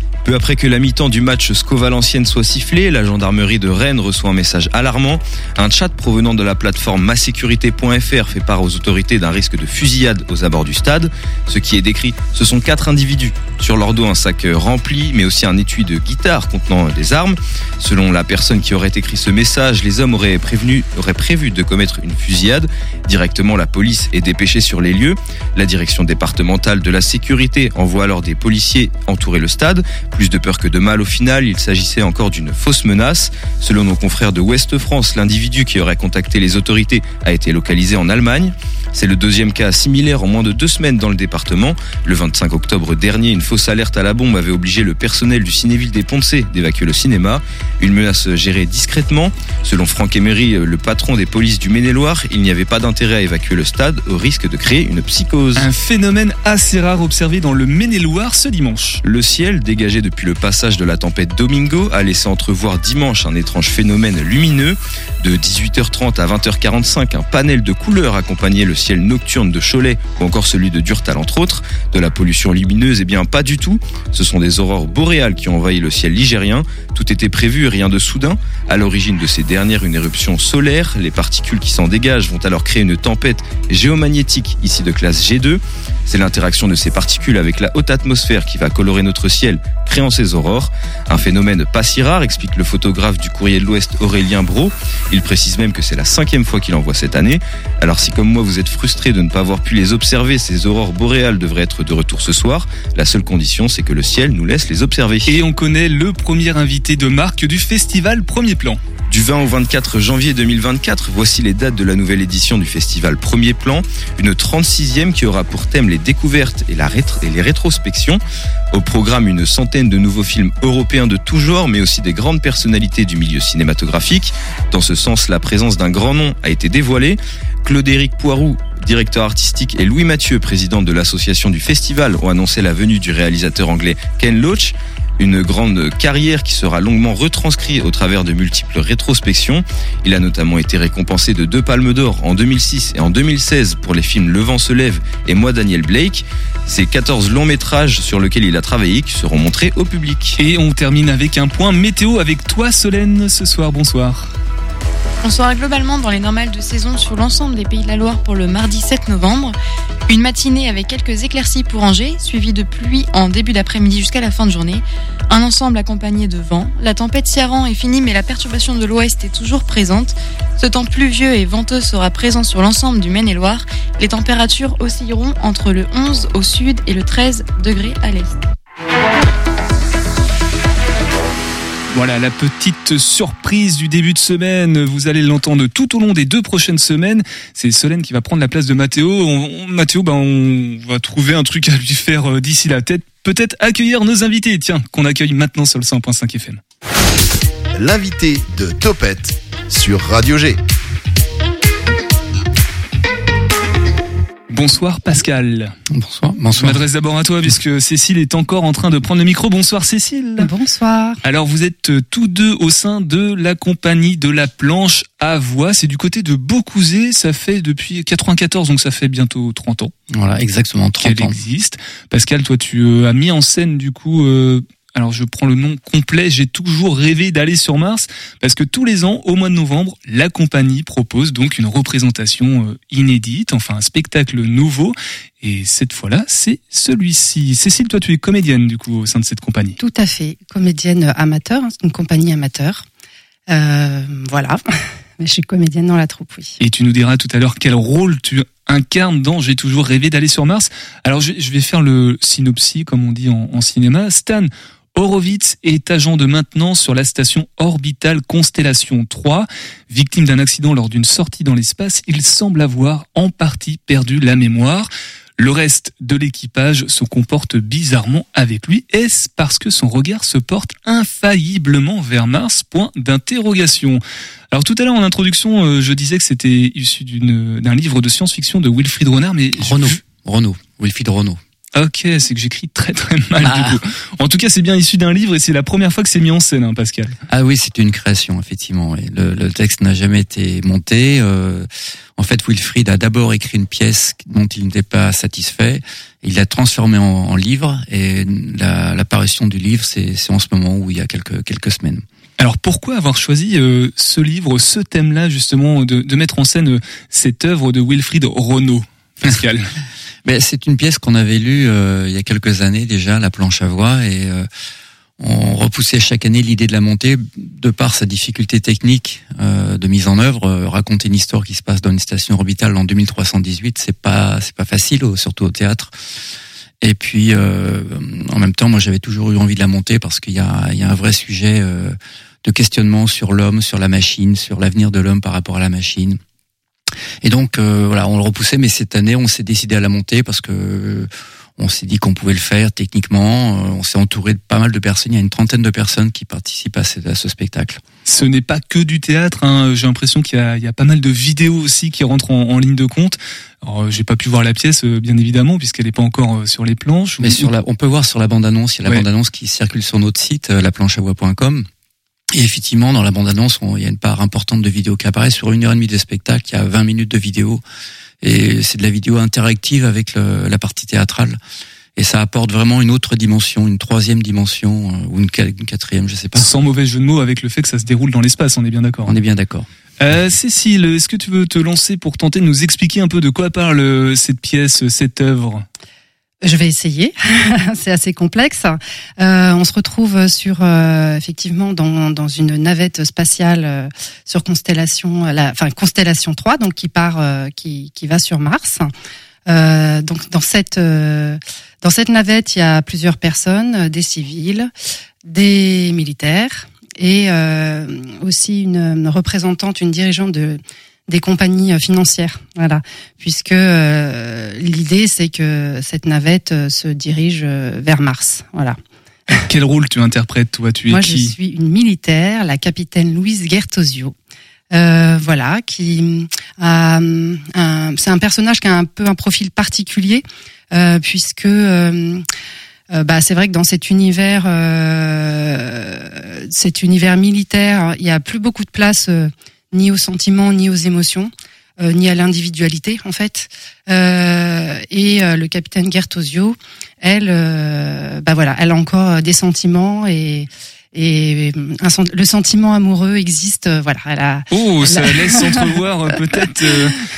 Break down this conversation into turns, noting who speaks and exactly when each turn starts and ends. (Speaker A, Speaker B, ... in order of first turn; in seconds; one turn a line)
Speaker A: 0.2-55.7
Speaker B: 55.5-59.0
Speaker A: 59.0-105.3
Speaker B: 105.2-108.8
Speaker A: 109.1-118.2
Speaker A: 118.7-150.4
Speaker B: 150.4-154.3
Speaker C: 155.2-159.6
Speaker C: 160.1-178.4
Speaker B: 181.9-196.6
Speaker D: 197.7-200.6
Speaker B: 204.5-205.7
Speaker E: 205.9-206.8
Speaker B: 206.6-210.5
Speaker F: 210.4-211.2
Speaker B: 211.2-219.9
Speaker E: 220.1-221.4
Speaker B: 221.0-239.8
Speaker F: 239.8-242.8
Speaker F: 243.5-244.6
Speaker F: 245.2-246.6
Speaker B: 246.6-274.0
Speaker B: 274.5-280.0
Speaker E: 279.6-281.4
Speaker B: 281.7-287.2
Speaker E: 283.4-283.8
Speaker E: 287.3-302.0
Speaker B: 302.4-309.7
Speaker E: 310.2-314.5
Speaker E: 315.2-325.9
Speaker E: 326.8-336.2
Speaker E: 337.2-347.8
Speaker B: 348.1-357.5
Speaker E: 357.2-361.7
Speaker E: 362.3-367.6
Speaker E: 368.2-371.4
Speaker E: 371.9-376.5
Speaker B: 376.4-379.1
Speaker E: 379.1-379.7
Speaker B: 380.0-385.6
Speaker F: 386.4-398.9
Speaker F: 399.5-404.7
Speaker F: 405.2-418.8
Speaker B: 419.4-421.3
Speaker F: 420.9-424.1
Speaker F: 424.7-432.2
Speaker F: 432.9-455.6
Speaker B: 454.5-456.9